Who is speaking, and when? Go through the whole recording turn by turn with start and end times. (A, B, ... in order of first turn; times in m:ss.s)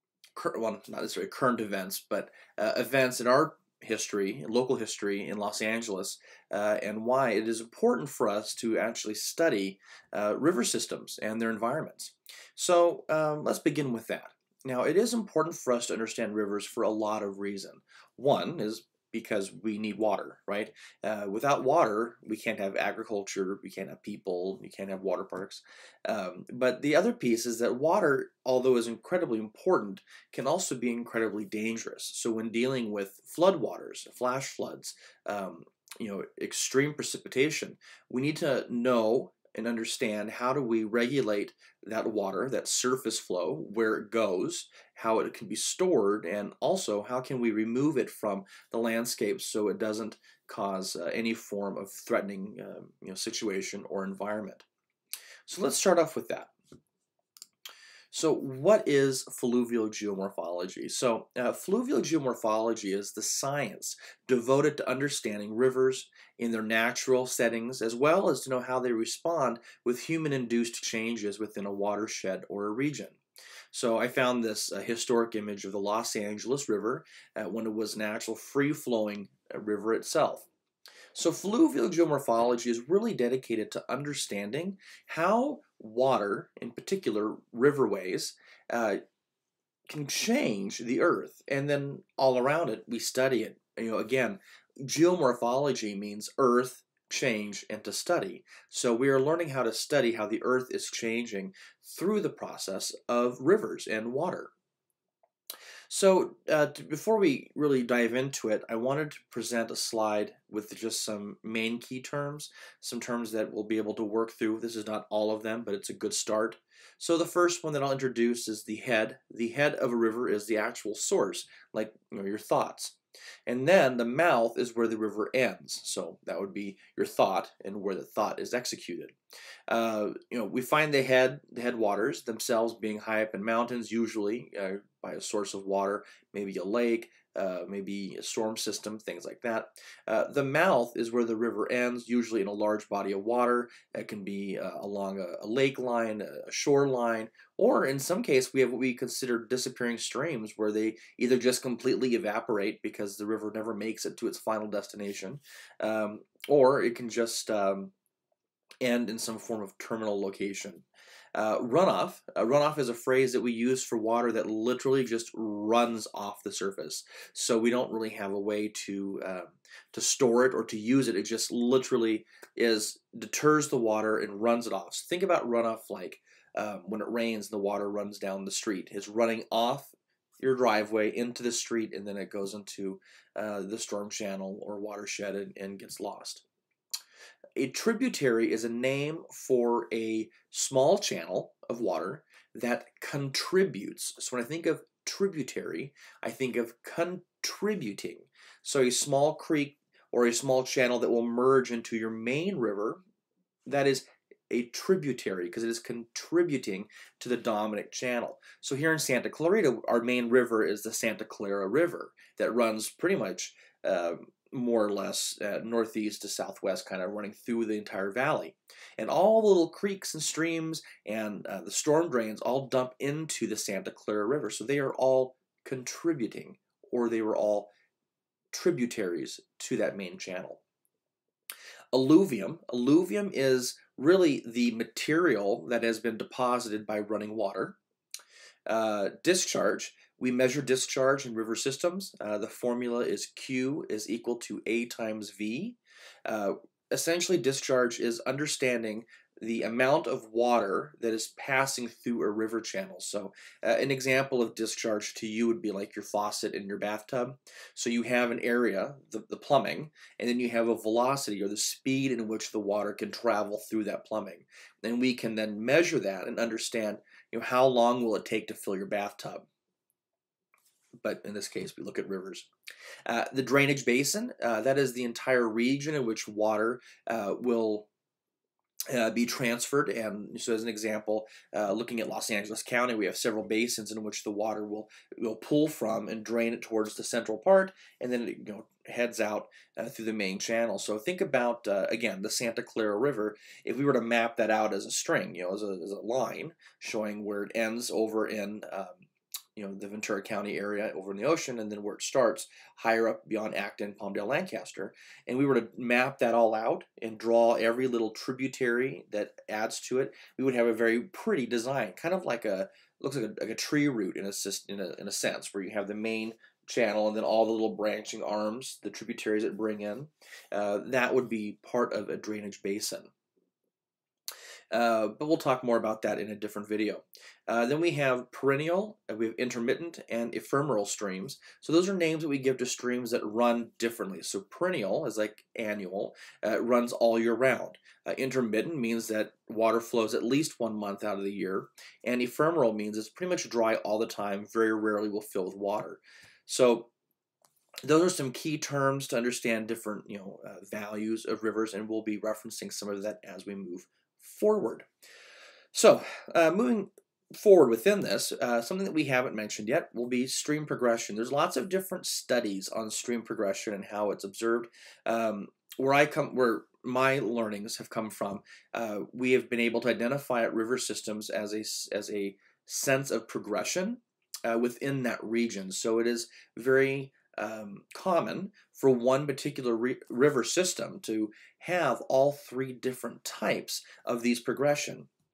0:00.3-0:54.6 A
0:55.4-0:56.5 A
0:58.1-1:13.2 A
1:13.7-1:20.5 A
1:21.1-1:29.0 A
1:29.9-1:44.5 A
1:45.9-2:09.1 A
2:09.7-2:37.9 A
2:38.8-3:06.4 A
3:07.6-3:23.0 A
3:23.6-3:47.7 A
3:48.5-3:50.6 A
3:51.9-3:57.8 A
3:58.7-4:29.5 A
4:31.0-4:32.5 A
4:33.0-4:37.9 A
4:38.9-4:59.0 A
4:59.6-5:23.1 A
5:24.7-5:46.9 A
5:47.8-5:54.9 A
5:55.7-6:25.1 A